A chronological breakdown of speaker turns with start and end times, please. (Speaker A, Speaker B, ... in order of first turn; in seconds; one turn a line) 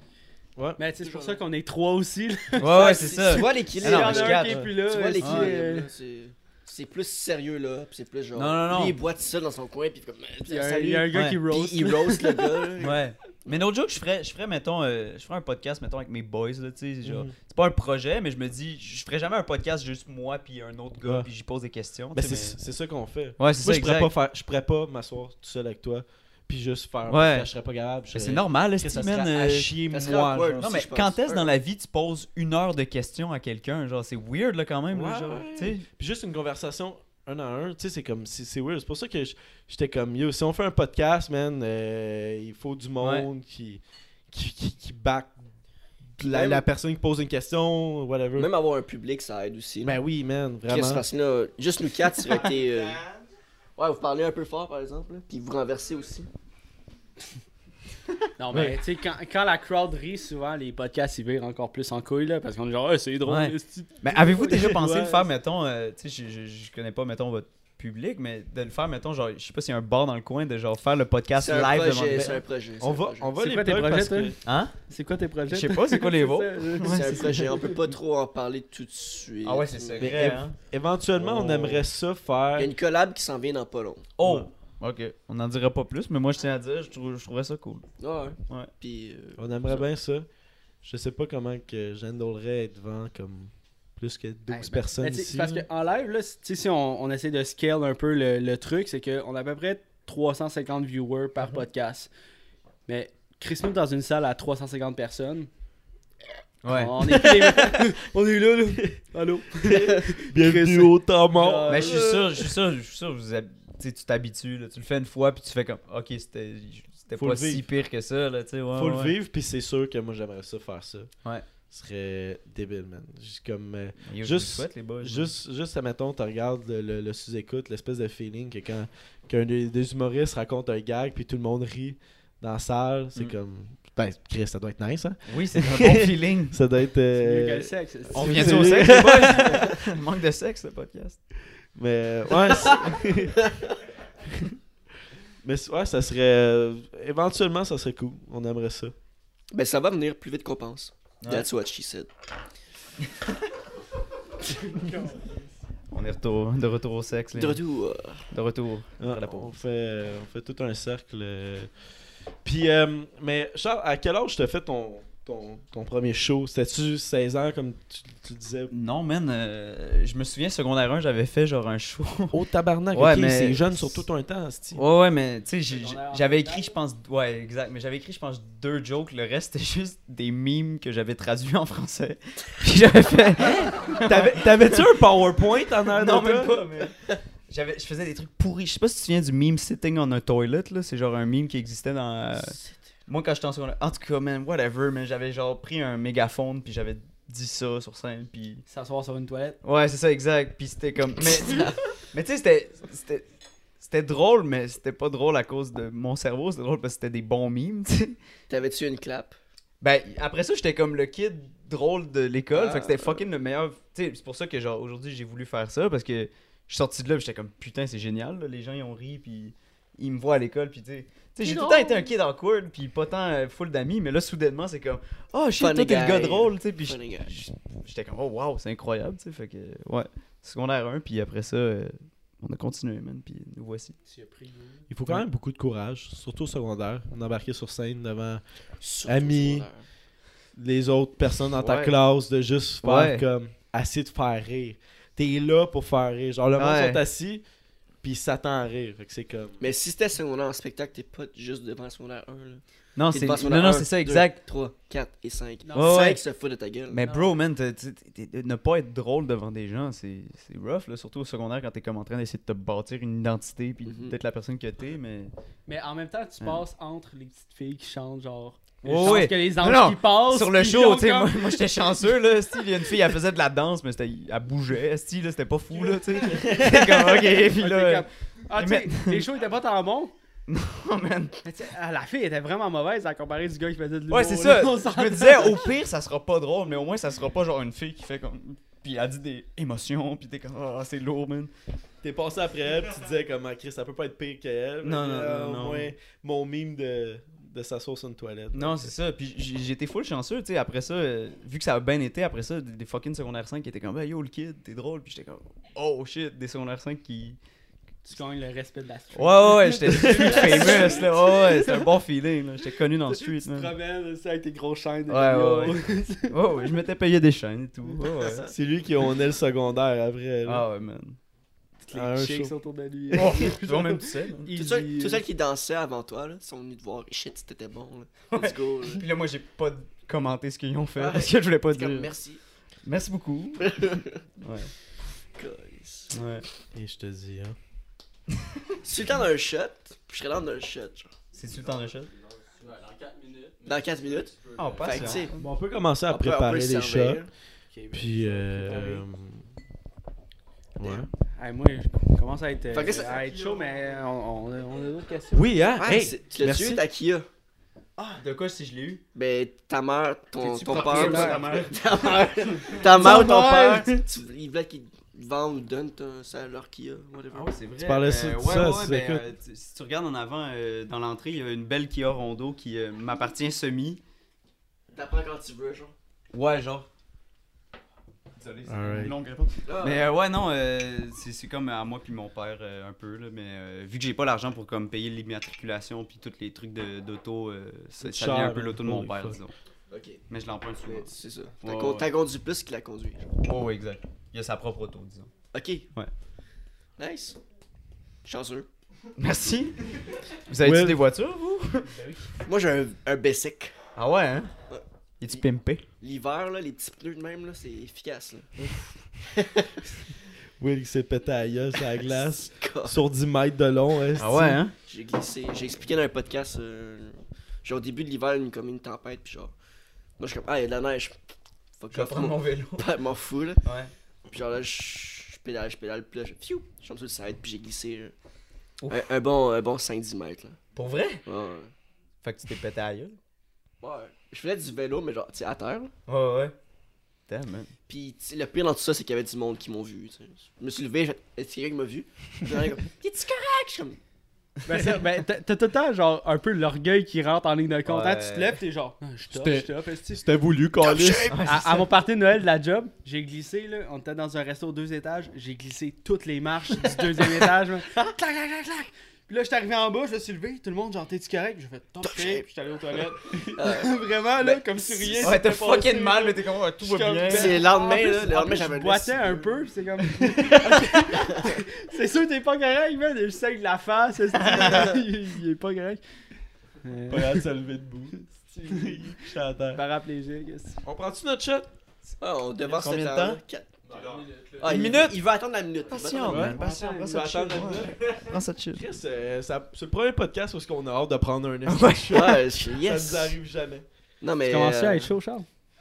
Speaker A: 0.8-5.9
Speaker B: 1.0-1.4
Speaker C: 2.6-5.5
Speaker B: 2.6-13.5
Speaker C: 8.3-9.0
Speaker A: 10.4-12.6
Speaker C: 11.1-11.4
Speaker C: 12.8-22.6
Speaker D: 17.0-17.3
Speaker D: 21.0-21.3
Speaker D: 22.1-30.7
Speaker C: 23.4-24.1
Speaker C: 27.1-27.5
Speaker C: 28.1-29.8
Speaker B: 29.9-31.5
Speaker C: 30.6-35.9
Speaker D: 34.9-45.4
Speaker C: 43.0-43.2
Speaker D: 46.2-48.5
Speaker B: 46.2-46.6
Speaker B: 48.4-50.0
Speaker D: 49.8-51.0
Speaker B: 50.7-53.0
Speaker B: 53.8-56.3
Speaker A: 58.4-65.3
Speaker C: 58.5-58.8
Speaker C: 63.2-72.4
Speaker B: 71.3-73.3
Speaker D: 72.1-74.4
Speaker A: 73.4-74.3
Speaker C: 74.4-74.7
Speaker A: 74.9-77.6
Speaker C: 75.5-77.6
Speaker B: 76.8-80.3
Speaker C: 79.4-80.5
Speaker D: 80.0-82.7
Speaker B: 81.2-81.8
Speaker B: 82.5-84.1
Speaker C: 84.2-87.9
Speaker B: 88.0-89.9
Speaker D: 89.4-90.3
Speaker D: 90.8-95.7
Speaker A: 94.5-102.1
Speaker A: 102.9-105.5
Speaker C: 106.6-107.1
Speaker A: 106.7-112.0
Speaker D: 107.1-107.8
Speaker D: 109.6-112.5
Speaker C: 111.7-119.1
Speaker D: 117.2-117.7
Speaker D: 118.7-121.1
Speaker D: 121.7-139.7
Speaker C: 124.0-125.3
Speaker C: 135.3-136.6
Speaker A: 137.1-139.7
Speaker C: 138.1-141.2
Speaker D: 141.7-143.4
Speaker B: 143.3-143.8
Speaker D: 145.4-148.9
Speaker B: 149.5-152.1
Speaker C: 151.2-151.5
Speaker A: 154.6-155.5
Speaker C: 155.9-157.6
Speaker B: 157.3-158.2
Speaker C: 158.3-159.5
Speaker D: 159.0-161.7
Speaker D: 162.4-168.7
Speaker C: 168.7-172.4
Speaker D: 172.3-174.8
Speaker C: 172.9-173.9
Speaker C: 174.7-184.9
Speaker A: 175.7-176.7
Speaker D: 184.0-186.6
Speaker C: 185.8-198.6
Speaker B: 192.3-192.8
Speaker A: 198.7-199.6
Speaker C: 199.6-203.2
Speaker B: 201.4-201.8
Speaker C: 203.8-208.2
Speaker B: 208.5-209.3
Speaker C: 209.8-233.9
Speaker B: 212.5-213.2
Speaker B: 221.4-222.1
Speaker B: 225.6-227.4
Speaker A: 234.1-234.8
Speaker D: 234.9-238.4
Speaker B: 238.8-239.8
Speaker D: 239.0-239.7
Speaker D: 240.6-247.4
Speaker C: 241.6-242.0
Speaker C: 242.8-243.2
Speaker C: 246.6-247.0
Speaker D: 248.0-249.6
Speaker B: 249.6-257.0
Speaker C: 252.9-254.4
Speaker A: 255.6-256.0
Speaker C: 255.7-256.2
Speaker C: 256.9-265.3
Speaker A: 257.0-257.4
Speaker B: 263.9-264.1
Speaker A: 265.7-271.8
Speaker C: 268.8-279.3
Speaker A: 277.5-280.1
Speaker C: 280.5-281.4
Speaker A: 281.4-285.7
Speaker C: 284.1-291.5
Speaker D: 292.0-298.9
Speaker C: 294.8-295.9
Speaker C: 298.5-307.4
Speaker A: 308.0-311.9
Speaker C: 309.1-313.7
Speaker B: 310.7-310.9
Speaker A: 313.1-316.4
Speaker C: 315.1-318.5
Speaker D: 318.5-320.6
Speaker C: 320.4-321.2
Speaker A: 321.8-325.2
Speaker D: 321.9-322.5
Speaker C: 323.1-324.5
Speaker B: 324.5-329.1
Speaker C: 328.3-332.1
Speaker B: 331.0-332.4
Speaker C: 332.8-333.9
Speaker B: 333.6-334.2
Speaker C: 334.4-334.7
Speaker B: 335.3-336.1
Speaker C: 336.1-336.4
Speaker D: 336.7-337.6
Speaker B: 338.8-341.1
Speaker C: 341.3-342.1
Speaker E: 341.5-345.3
Speaker B: 343.6-345.3
Speaker C: 344.6-345.4
Speaker D: 345.4-347.2
Speaker B: 346.1-347.3
Speaker A: 347.7-349.0
Speaker D: 347.9-349.4
Speaker D: 350.8-351.1
Speaker B: 350.8-351.1
Speaker A: 351.4-355.5
Speaker B: 352.7-353.1
Speaker E: 352.9-353.7
Speaker D: 355.3-356.8
Speaker B: 355.8-357.3
Speaker C: 358.0-359.0
Speaker B: 359.1-367.5
Speaker C: 360.4-364.0
Speaker A: 360.7-361.4
Speaker D: 363.0-363.3
Speaker C: 367.3-374.0
Speaker D: 367.8-369.2
Speaker B: 374.9-375.9
Speaker C: 376.3-376.9
Speaker C: 378.4-389.5
Speaker D: 378.6-379.1
Speaker B: 379.6-380.1
Speaker D: 388.0-389.4
Speaker B: 389.9-390.2
Speaker C: 390.3-391.1
Speaker B: 390.8-393.3
Speaker C: 391.6-392.1
Speaker C: 393.4-395.3
Speaker B: 395.5-395.9
Speaker B: 397.0-397.4
Speaker B: 398.2-398.7
Speaker C: 399.2-402.0
Speaker D: 400.6-401.0
Speaker B: 402.4-403.7
Speaker C: 403.9-404.5
Speaker B: 404.7-405.4
Speaker C: 405.2-405.8
Speaker B: 406.0-409.8
Speaker D: 410.6-414.6
Speaker B: 411.8-413.0
Speaker C: 414.1-414.7
Speaker B: 414.9-419.5
Speaker B: 420.2-421.2
Speaker B: 421.8-423.6
Speaker C: 421.9-422.9
Speaker C: 423.6-423.9
Speaker B: 424.3-428.1
Speaker C: 428.8-429.1
Speaker B: 428.9-430.6
Speaker C: 430.7-431.2
Speaker B: 431.2-431.7
Speaker C: 432.2-433.2
Speaker B: 433.8-435.9
Speaker C: 436.1-436.5
Speaker C: 437.3-437.7
Speaker B: 437.9-444.0
Speaker A: 444.6-450.3
Speaker C: 447.9-448.6
Speaker D: 449.3-451.4
Speaker B: 450.8-451.6
Speaker C: 451.3-451.9
Speaker A: 451.4-476.0
Speaker B: 462.0-462.4
Speaker B: 463.4-465.3
Speaker C: 465.2-467.6
Speaker B: 467.3-469.6
Speaker B: 470.5-471.5
Speaker C: 474.4-474.9
Speaker B: 474.5-474.9
Speaker A: 476.8-477.4
Speaker D: 477.1-478.1
Speaker A: 478.5-479.2
Speaker D: 478.7-479.8
Speaker A: 479.7-480.8
Speaker D: 480.8-481.7
Speaker B: 482.2-483.8
Speaker C: 482.6-483.4
Speaker E: 483.8-485.1
Speaker B: 484.6-486.6
Speaker C: 484.6-485.3
Speaker C: 485.9-488.8
Speaker D: 486.2-493.9
Speaker A: 486.5-487.7
Speaker C: 491.6-492.4
Speaker B: 492.1-493.4
Speaker B: 494.2-495.1
Speaker A: 494.4-495.4